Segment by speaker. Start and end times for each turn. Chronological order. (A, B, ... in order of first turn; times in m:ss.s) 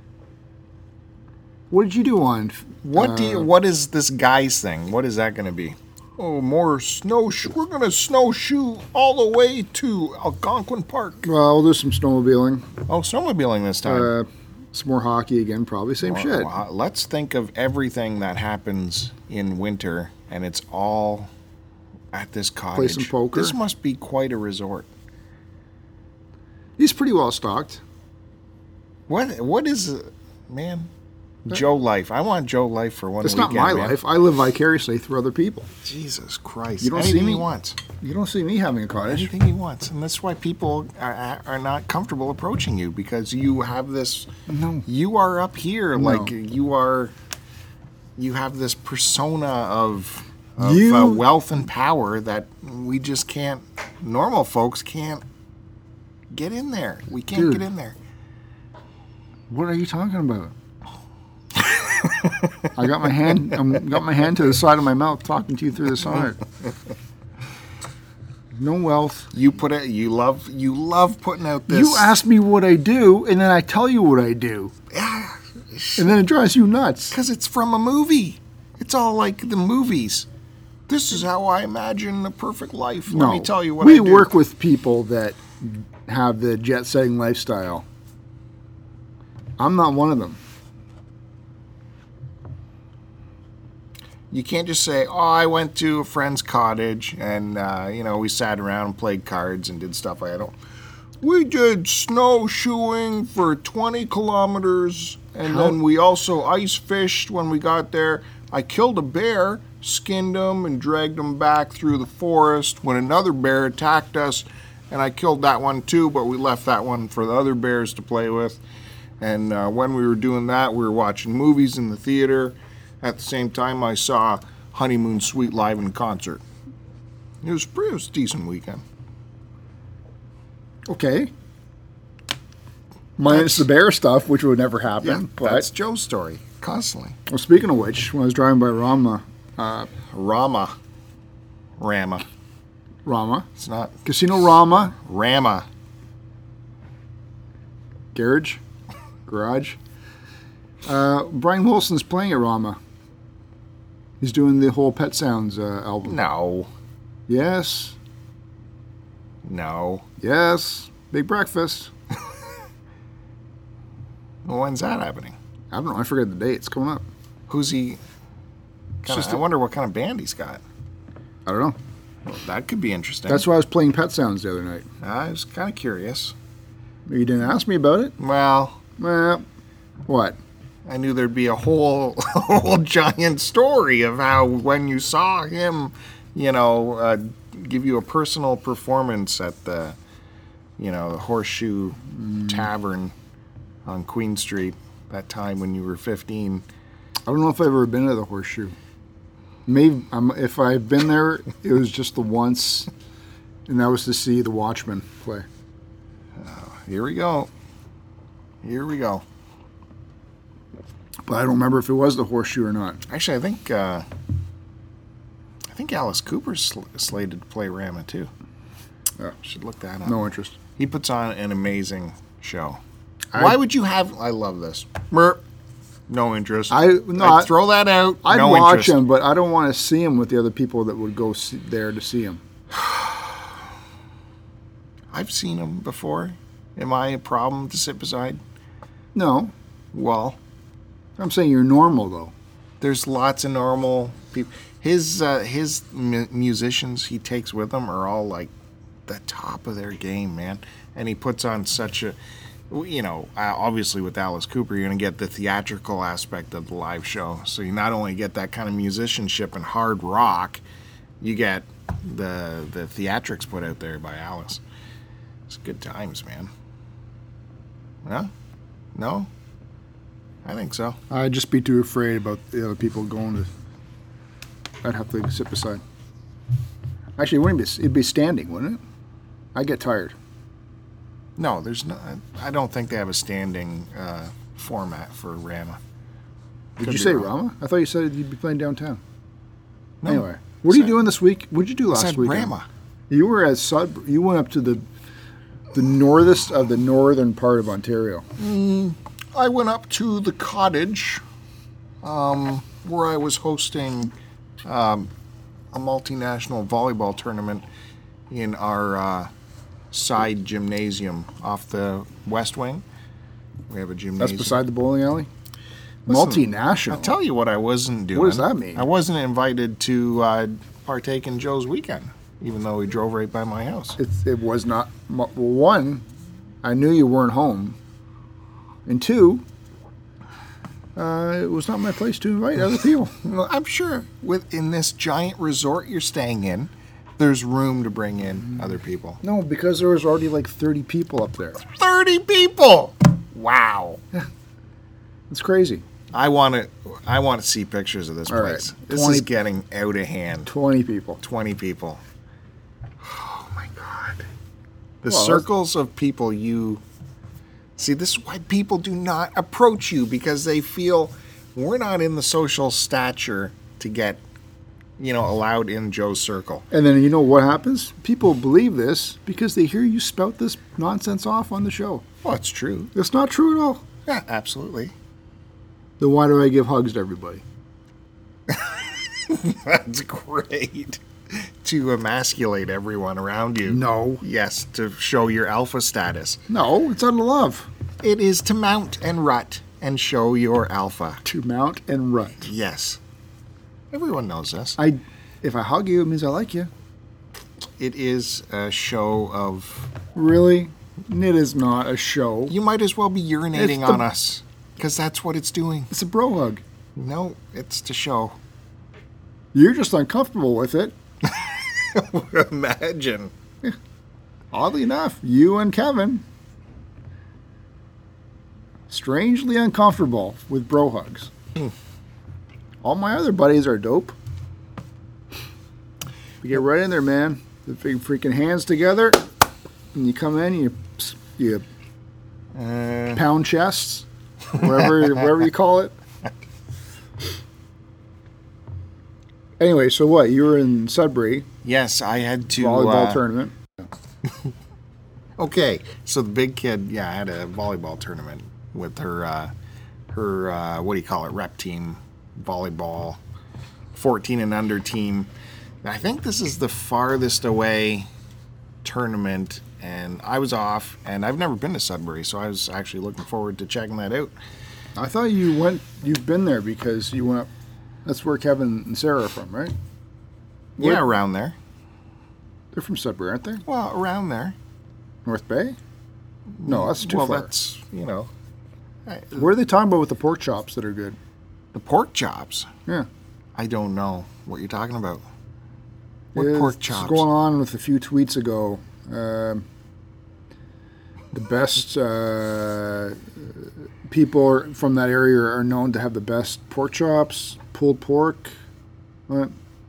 0:01.7-0:03.5 A
0:02.8-0:11.3 B
0:11.2-0:12.7 A
0:12.9-0:14.1 B
0:13.8-0:16.5 A
0:16.0-0:21.3 B
0:22.1-0:24.9 B
0:22.7-0:23.6 A
0:26.8-0:27.8 A
0:29.1-0:30.9 B
0:31.5-0:34.0 B
0:33.2-0:35.7 A
0:35.8-0:37.8 B
0:36.8-0:37.5 A
0:38.0-0:39.3 A
0:39.0-0:44.3 B
0:44.5-0:44.8 A
0:44.8-0:47.1 B
0:46.0-0:46.3 A
0:48.2-0:55.2 B
0:50.6-0:51.2 A
0:56.3-0:58.0 B
0:57.3-0:57.6 A
0:59.5-1:00.5 A
1:02.7-1:06.4 A
1:08.5-1:09.3 A
1:09.3-1:12.1 B
1:11.7-1:14.7 A
1:14.9-1:16.2 B
1:16.0-1:17.1 A
1:17.1-1:20.3 B
1:20.9-1:24.3 B
1:23.1-1:27.8 A
1:29.6-1:30.4 A
1:34.3-1:40.5 B
1:41.2-1:58.6 B
1:59.2-2:06.4 B
2:07.4-2:08.8 B
2:10.9-2:11.3 A
2:13.2-2:15.7 A
2:13.3-2:13.7 B
2:15.0-2:17.2 B
2:17.3-2:19.9 A
2:20.1-2:20.7 B
2:21.8-2:22.2 B
2:23.0-2:23.5 A
2:23.6-2:24.0 B
2:24.0-2:25.0 A
2:25.0-2:25.6 B
2:28.1-2:28.6 A
2:29.3-2:29.8 A
2:30.8-2:32.8 A
2:34.2-2:36.2 A
2:36.0-2:36.7 B
2:37.3-2:38.0 A
2:39.4-2:40.0 B
2:40.2-2:41.9 A
2:44.4-2:45.4 B
2:45.7-2:47.0 A
2:47.5-2:48.0 B
2:49.0-2:50.6 B
2:49.0-2:49.4 A
2:51.4-2:51.8 A
2:52.2-2:53.4 B
2:53.3-2:54.8 A
2:55.0-2:56.3 B
2:57.1-2:58.1 A
2:58.2-2:58.8 B
2:59.0-2:59.4 A
3:00.1-3:00.4 A
3:00.8-3:10.0 B
3:10.8-3:13.1 B
3:12.1-3:12.7 A
3:13.8-3:16.6 B
3:17.3-3:18.8 A
3:19.7-3:22.9 A
3:23.7-3:25.4 A
3:26.4-3:27.5 B
3:28.6-3:29.2 B
3:31.3-3:33.0 A
3:33.1-3:34.0 B
3:35.7-3:38.3 B
3:39.4-3:40.2 B
3:40.0-3:40.6 A
3:40.8-3:42.8 B
3:43.3-3:45.4 B
3:46.1-3:49.0 B
3:46.7-3:47.5 A
3:48.2-3:52.4 A
3:52.7-3:53.4 B
3:55.1-3:58.4 B
3:59.1-3:59.5 A
3:59.9-4:00.4 B
4:01.2-4:02.3 A
4:02.8-4:08.5 B
4:09.0-4:12.2 B
4:12.7-4:20.6 B
4:21.2-4:24.6 B
4:25.5-4:26.5 B
4:28.0-4:28.3 B
4:28.9-4:29.3 B
4:30.4-4:31.0 B
4:31.1-4:33.5 A
4:34.8-4:35.8 A
4:37.2-4:38.8 A
4:39.5-4:40.1 A
4:41.4-4:45.8 B
4:46.8-4:47.3 B
4:46.8-4:49.0 A
4:50.0-4:51.0 B
4:50.0-4:52.5 A
4:51.9-4:52.6 B
4:53.1-4:54.8 A
4:55.7-4:58.2 A
4:58.4-5:01.2 B
5:02.0-5:04.1 B
5:04.6-5:05.1 B
5:05.7-5:07.6 B
5:08.3-5:09.3 B
5:09.9-5:12.8 B
5:13.7-5:14.6 B
5:14.2-5:15.3 A
5:16.1-5:17.1 A
5:16.1-5:24.0 B
5:18.1-5:18.8 A
5:24.0-5:26.0 A
5:26.6-5:27.8 A
5:28.8-5:29.4 A
5:31.0-5:33.1 A
5:33.2-5:39.2 B
5:39.2-5:41.6 A
5:41.6-5:44.0 B
5:45.3-5:45.8 A
5:46.1-5:50.5 B
5:48.3-5:49.3 A
5:50.4-5:51.2 A
5:51.2-5:52.0 B
5:53.0-5:54.3 B
5:55.0-5:56.8 B
5:55.1-5:55.5 A
5:57.8-6:04.2 B
6:05.0-6:06.6 B
6:06.7-6:12.0 A
6:12.2-6:12.9 B
6:12.9-6:13.8 A
6:14.0-6:14.9 B
6:16.0-6:17.4 A
6:18.5-6:26.4 B
6:23.6-6:24.2 A
6:26.5-6:27.7 A
6:28.0-6:31.2 B
6:31.2-6:32.5 A
6:32.4-6:33.0 B
6:33.9-6:34.8 B
6:34.8-6:36.7 A
6:37.8-6:39.9 B
6:40.1-6:42.5 A
6:42.5-6:45.9 B
6:43.5-6:44.0 A
6:45.9-6:46.6 A
6:47.0-6:48.4 B
6:49.5-6:50.9 A
6:51.2-6:53.3 B
6:54.5-6:56.2 A
6:58.9-7:01.3 A
7:02.8-7:04.1 A
7:06.4-7:09.2 A
7:09.9-7:11.6 A
7:12.5-7:13.2 B
7:13.1-7:15.9 A
7:19.6-7:21.5 A
7:21.6-7:23.2 B
7:22.6-7:23.6 A
7:25.4-7:29.5 B
7:30.1-7:33.2 B
7:33.9-7:35.3 B
7:35.8-7:38.1 B
7:38.8-7:44.3 B
7:45.0-7:47.5 A
7:48.0-7:49.7 A
7:50.8-7:51.0 A
7:50.8-7:51.6 B
7:52.7-7:53.6 A
7:53.6-7:54.6 B
7:55.2-7:55.8 A
7:56.6-7:58.3 B
7:56.6-7:57.5 A
7:59.0-7:59.5 B
7:59.3-8:01.2 A
8:01.7-8:02.7 B
8:03.5-8:05.2 B
8:06.3-8:09.6 A
8:06.3-8:07.2 B
8:11.3-8:18.5 A